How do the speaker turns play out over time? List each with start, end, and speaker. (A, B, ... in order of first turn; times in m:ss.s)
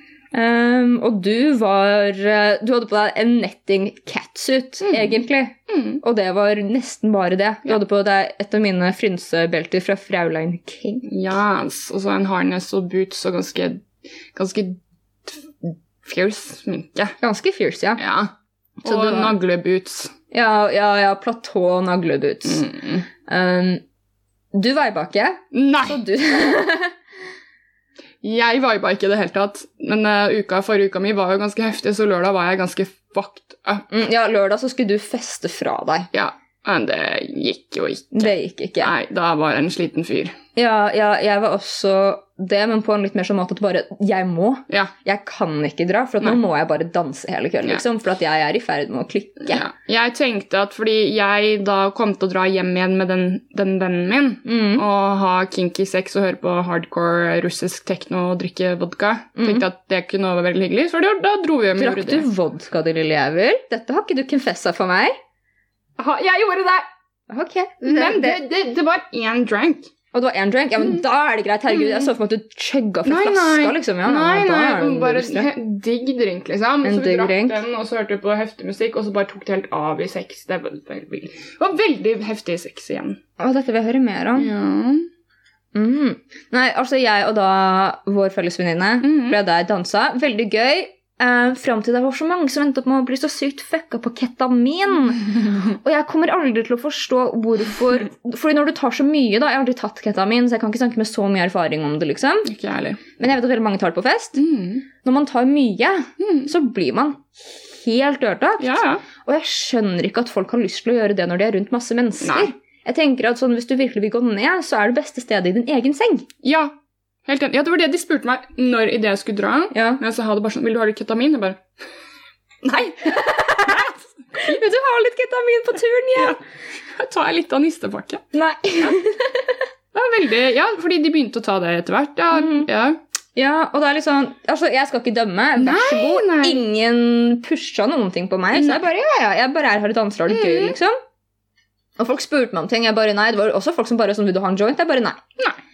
0:00.3-0:11.1 A
0:04.8-0:05.2 B
0:05.7-0:06.0 B
0:11.0-0:17.2 B
0:17.2-0:18.0 A
0:18.0-0:18.3 B
0:18.8-0:19.4 A
0:18.8-0:20.1 B
0:20.3-0:22.7 A
0:22.5-0:23.1 B
0:23.2-0:23.8 A
0:24.5-0:26.9 A
0:25.5-0:26.0 B
0:28.2-0:33.9 B
0:33.9-0:36.1 A
0:36.1-0:40.4 B
0:38.1-0:38.9 A
0:40.6-0:49.6 A
0:49.5-1:02.2 B
0:54.4-0:54.8 A
0:59.4-0:59.6 A
1:01.8-1:05.2 A
1:06.0-1:06.9 B
1:07.3-1:08.4 A
1:07.8-1:09.9 B
1:10.1-1:15.5 A
1:11.7-1:12.1 B
1:13.0-1:23.2 B
1:16.8-1:17.6 A
1:23.4-1:24.5 A
1:24.4-1:25.1 B
1:25.8-1:42.5 A
1:29.0-1:29.4 B
1:42.5-1:43.0 B
1:43.2-1:44.4 A
1:44.4-1:44.9 B
1:45.0-1:56.3 A
1:46.2-1:46.5 B
1:48.6-1:49.0 B
1:52.2-1:52.5 B
1:56.4-1:56.7 B
1:57.2-2:01.7 B
1:59.7-2:00.0 A
2:02.6-2:04.6 B
2:03.3-2:06.4 A
2:06.2-2:08.2 B
2:08.3-2:09.6 A
2:09.9-2:13.0 B
2:12.3-2:12.7 A
2:13.4-2:21.0 A
2:15.6-2:16.6 B
2:18.5-2:18.9 B
2:20.3-2:20.8 B
2:22.0-2:25.2 A